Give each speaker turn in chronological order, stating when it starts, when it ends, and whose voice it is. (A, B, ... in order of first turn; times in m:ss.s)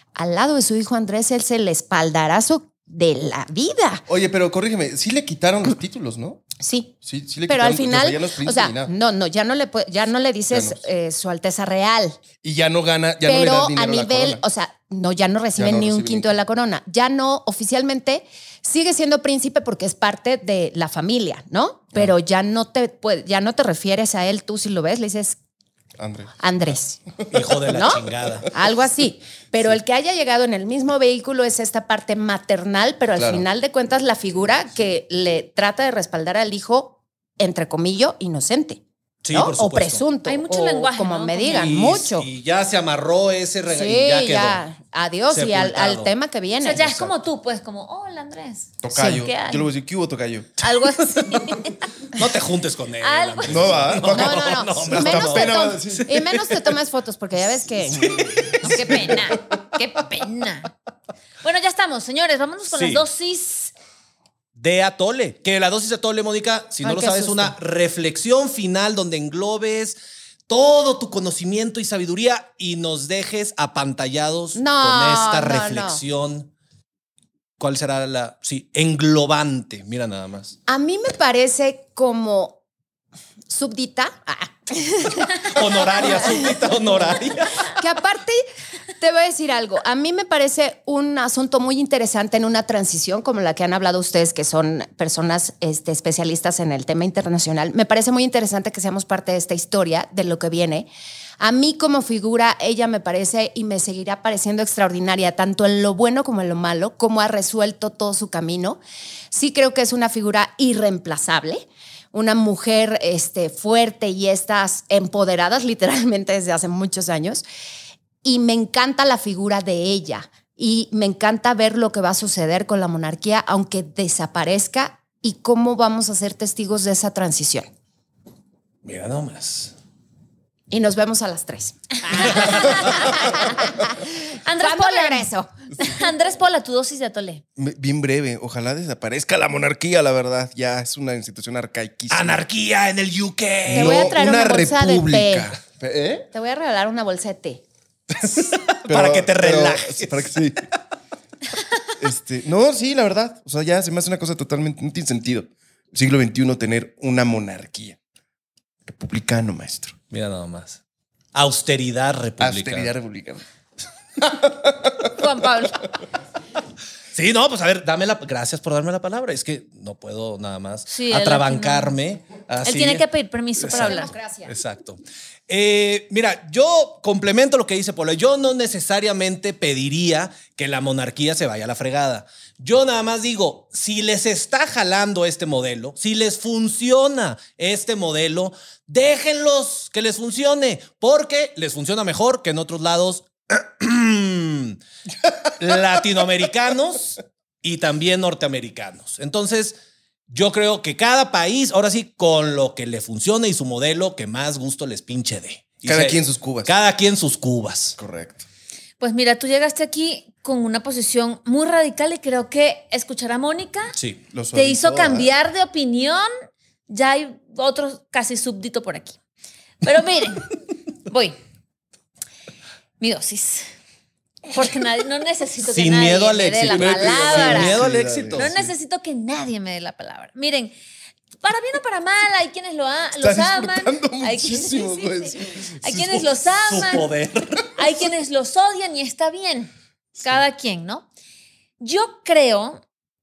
0:00.2-0:04.0 A
0:04.1-0:06.4 B
0:06.6-0:07.0 A
0:07.0-0:08.9 B
0:07.5-0:12.2 A
0:10.5-0:10.8 B
0:12.4-0:14.4 B
0:13.2-0:25.4 A
0:15.6-0:16.3 B
0:26.0-0:26.3 B
0:26.4-0:27.0 A
0:27.3-0:28.5 C
0:27.7-0:42.3 A
0:33.2-0:33.5 B
0:39.2-0:40.1 C
0:40.2-0:41.7 D
0:41.5-0:44.6 C
0:43.7-0:47.1 A
0:45.3-0:46.1 C
0:46.6-0:49.7 D
0:48.8-0:50.6 B
0:48.9-0:49.3 A
0:50.6-0:51.8 D
0:52.2-0:56.1 C
0:53.0-0:53.7 D
0:53.5-0:56.1 B
0:54.1-0:59.4 A
0:58.1-0:58.4 B
0:58.7-1:00.7 D
1:01.4-1:03.7 D
1:02.7-1:03.1 C
1:04.6-1:16.5 C
1:06.8-1:07.6 A
1:14.6-1:16.0 A
1:17.6-1:20.6 C
1:20.7-1:22.6 A
1:23.5-1:26.6 A
1:25.5-1:27.6 C
1:27.8-1:28.4 A
1:29.0-1:48.8 A
1:49.3-1:57.4 A
1:58.2-2:07.7 A
2:08.8-2:09.7 C
2:10.7-2:15.5 A
2:14.4-2:15.3 D
2:15.8-2:17.4 D
2:17.6-2:22.4 B
2:22.1-2:24.2 C
2:23.7-2:26.3 B
2:23.7-2:25.5 A
2:26.3-2:27.6 A
2:28.2-2:30.3 C
2:28.9-2:30.6 B
2:32.0-2:38.0 B
2:38.8-2:40.0 B
2:40.1-2:40.8 C
2:41.3-2:42.9 C
2:42.4-2:43.4 B
2:44.3-2:45.0 B
2:45.1-2:45.9 D
2:47.1-2:53.1 C
2:50.9-2:52.0 D
2:52.6-2:54.1 D
2:53.6-3:14.8 C
2:53.7-2:54.5 A
3:15.6-3:19.8 C
3:20.3-3:28.0 C
3:25.8-3:26.7 B
3:28.0-3:28.4 B
3:29.0-3:33.9 D
3:34.0-3:34.2 C
3:34.3-3:35.3 B
3:34.5-3:36.3 D
3:36.9-3:39.2 D
3:39.8-3:40.5 D
3:41.1-3:41.4 D
3:43.0-3:43.6 D
3:44.5-3:47.8 D
3:45.6-3:48.7 C
3:46.7-3:48.5 B
3:48.4-3:50.7 D
3:51.4-3:57.1 D
3:53.2-3:56.2 B
3:56.6-3:57.7 C
3:57.8-4:01.1 D
4:01.8-4:02.8 D